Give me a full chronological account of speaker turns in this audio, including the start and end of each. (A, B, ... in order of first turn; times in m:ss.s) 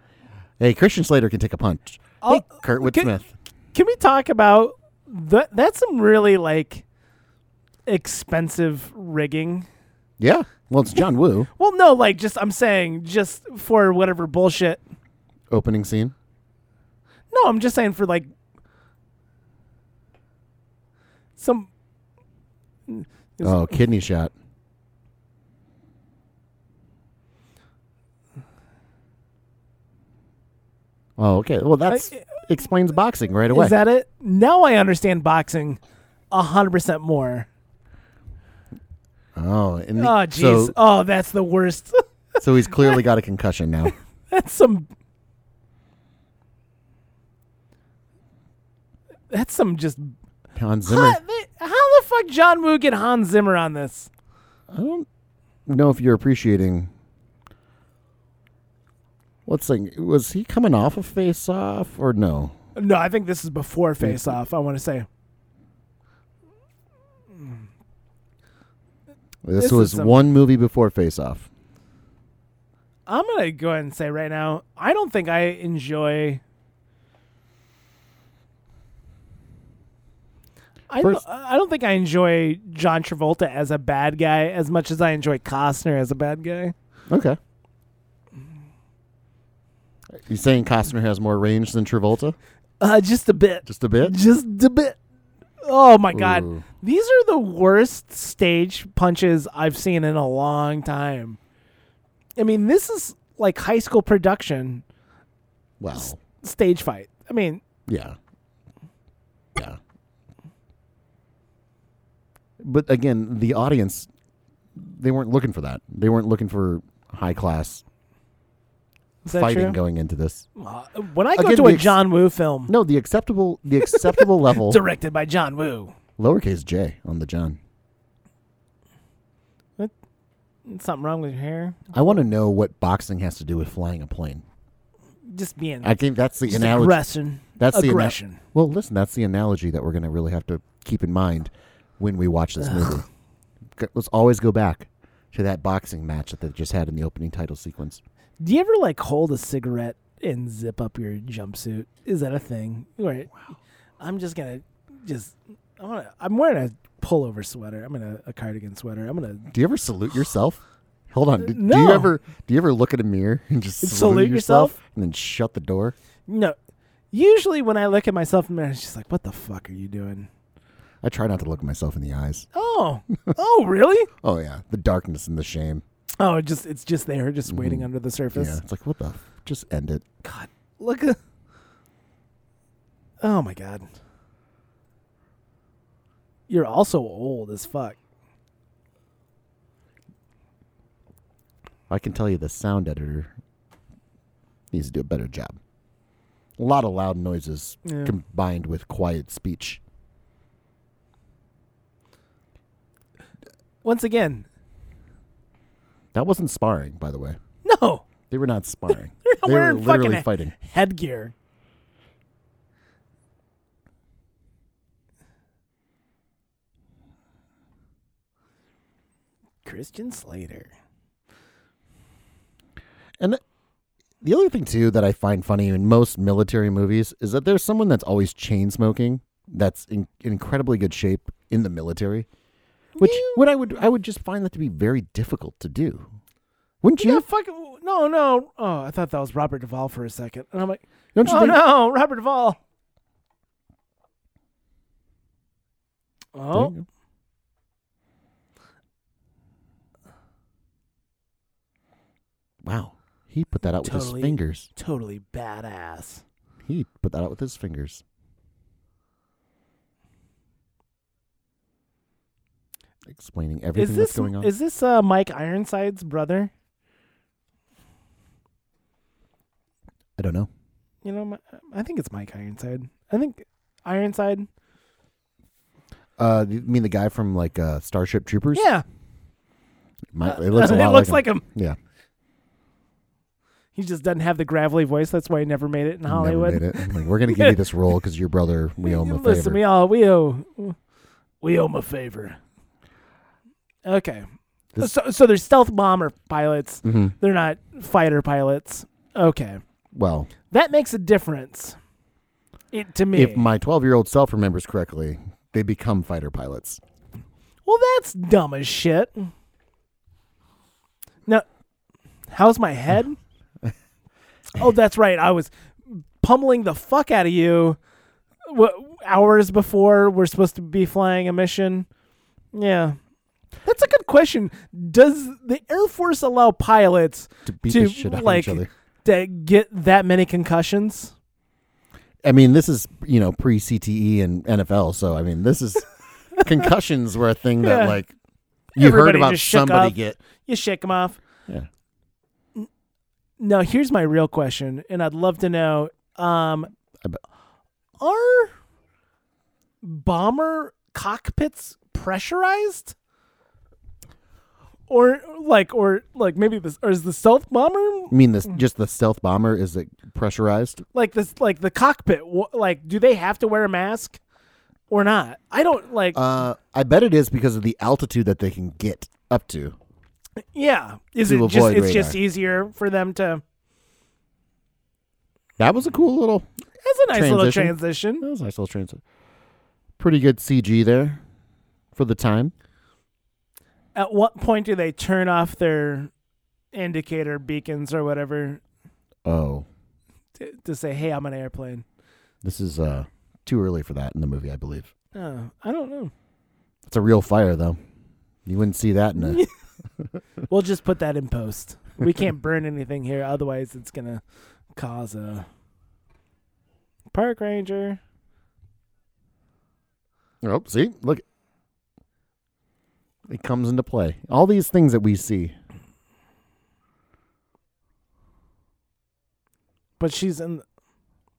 0:00.6-0:03.3 A
0:02.2-0:03.1 B
0:03.7-0:06.8 B
0:07.9-0:09.7 B
0:10.2-0:11.5 A
0:11.6-0:14.8 B
0:15.5-0:16.1 A
0:17.3-0:18.3 B
0:21.4-0:21.7 B
0:22.9-0:23.7 B
0:23.4-0:24.3 A
0:31.2-0:33.8 A
0:31.9-0:32.3 B
0:33.5-0:35.8 B
0:36.3-0:37.5 B
0:39.4-0:40.8 A
0:40.0-0:43.0 B
0:42.4-0:43.9 A
0:44.3-0:44.9 B
0:49.3-0:50.2 B
0:50.6-0:51.2 A
0:50.8-0:54.1 B
0:54.7-0:55.1 A
0:55.7-0:56.9 A
0:59.5-1:02.6 A
1:02.8-1:05.1 B
1:04.0-1:04.4 A
1:09.4-1:11.5 A
1:09.6-1:10.2 B
1:13.1-1:16.4 B
1:20.9-1:26.7 B
1:27.1-1:27.4 A
1:30.2-1:32.4 A
1:32.8-1:35.0 B
1:33.6-1:34.2 A
1:35.6-1:41.4 B
1:36.1-1:36.6 A
1:42.4-1:44.8 B
1:45.8-1:46.2 A
1:46.0-1:47.6 B
1:47.9-1:48.2 A
1:52.6-1:54.1 A
1:54.8-1:57.8 A
1:59.2-1:59.8 B
1:59.3-2:00.5 A
2:00.6-2:02.7 B
2:01.4-2:02.0 A
2:02.7-2:04.8 A
2:03.8-2:05.9 B
2:06.2-2:07.6 A
2:10.7-2:12.2 B
2:11.9-2:14.4 A
2:15.3-2:18.4 B
2:15.8-2:17.0 A
2:17.6-2:23.1 A
2:23.8-2:28.0 A
2:28.4-2:33.4 B
2:34.0-2:39.5 B
2:39.5-2:46.0 A
2:41.4-2:42.1 B
2:43.8-2:44.8 B
2:46.3-2:46.6 B
2:47.1-2:50.3 B
2:51.0-2:52.5 A
2:52.5-2:54.1 B
2:54.2-2:55.8 A
2:56.2-2:58.6 B
2:57.5-3:00.0 A
3:00.2-3:01.2 B
3:03.2-3:03.9 B
3:06.5-3:08.0 B
3:11.9-3:13.3 A
3:14.7-3:15.6 A
3:16.6-3:19.8 A
3:17.8-3:18.1 B
3:23.8-3:24.5 B
3:26.1-3:27.4 A
3:27.6-3:28.0 B
3:28.3-3:30.5 A
3:29.2-3:31.3 B
3:39.6-3:40.7 B
3:44.2-3:52.3 A
3:53.0-3:53.5 B
3:53.0-3:56.1 A
3:56.8-3:57.2 A
3:57.0-4:02.6 B
4:01.2-4:01.6 A
4:06.4-4:06.7 B
4:06.5-4:06.8 A
4:12.6-4:14.7 A
4:13.8-4:16.2 B
4:16.6-4:18.0 A
4:23.1-4:24.5 A
4:23.8-4:26.5 B
4:30.2-4:30.5 A
4:31.0-4:34.5 B
4:36.2-4:38.6 A
4:38.5-4:38.8 B
4:40.1-4:41.8 A
4:40.2-4:41.4 B
4:43.8-4:47.6 B
4:46.1-4:49.6 A
4:48.8-4:50.8 B
4:51.4-4:52.4 B
4:53.8-4:54.3 B
4:54.8-4:59.6 B
4:56.8-4:57.1 A
4:59.9-5:00.3 A
5:00.5-5:01.8 B
5:02.7-5:03.5 B
5:03.1-5:06.8 A
5:07.7-5:09.3 B
5:12.3-5:13.2 B
5:14.6-5:17.8 B
5:18.5-5:21.9 B
5:22.5-5:23.0 B
5:23.6-5:31.1 B
5:27.5-5:28.7 A
5:32.2-5:38.1 A
5:37.6-5:38.0 B
5:38.8-5:40.2 A
5:38.8-5:41.2 B
5:43.4-5:46.7 B
5:48.0-5:48.5 B
5:49.8-5:52.9 B
5:54.9-5:58.1 B
5:58.1-6:00.8 A
6:00.9-6:04.2 B
6:04.9-6:06.2 B
6:06.2-6:09.8 A
6:10.5-6:13.4 B
6:11.2-6:12.2 A
6:15.6-6:16.5 A
6:16.8-6:18.2 B
6:17.1-6:19.0 A
6:20.0-6:21.2 A
6:22.0-6:22.5 A
6:24.0-6:26.1 B
6:26.7-6:28.6 B
6:29.2-6:29.7 A
6:30.4-6:31.8 B
6:32.4-6:34.9 A
6:35.1-6:36.1 B
6:36.9-6:37.8 A
6:38.5-6:39.4 A
6:39.2-6:39.5 B
6:40.5-6:44.2 B
6:44.8-6:45.5 B
6:47.1-6:48.0 B
6:50.4-6:51.2 A
6:53.3-6:55.6 A
7:00.0-7:00.6 B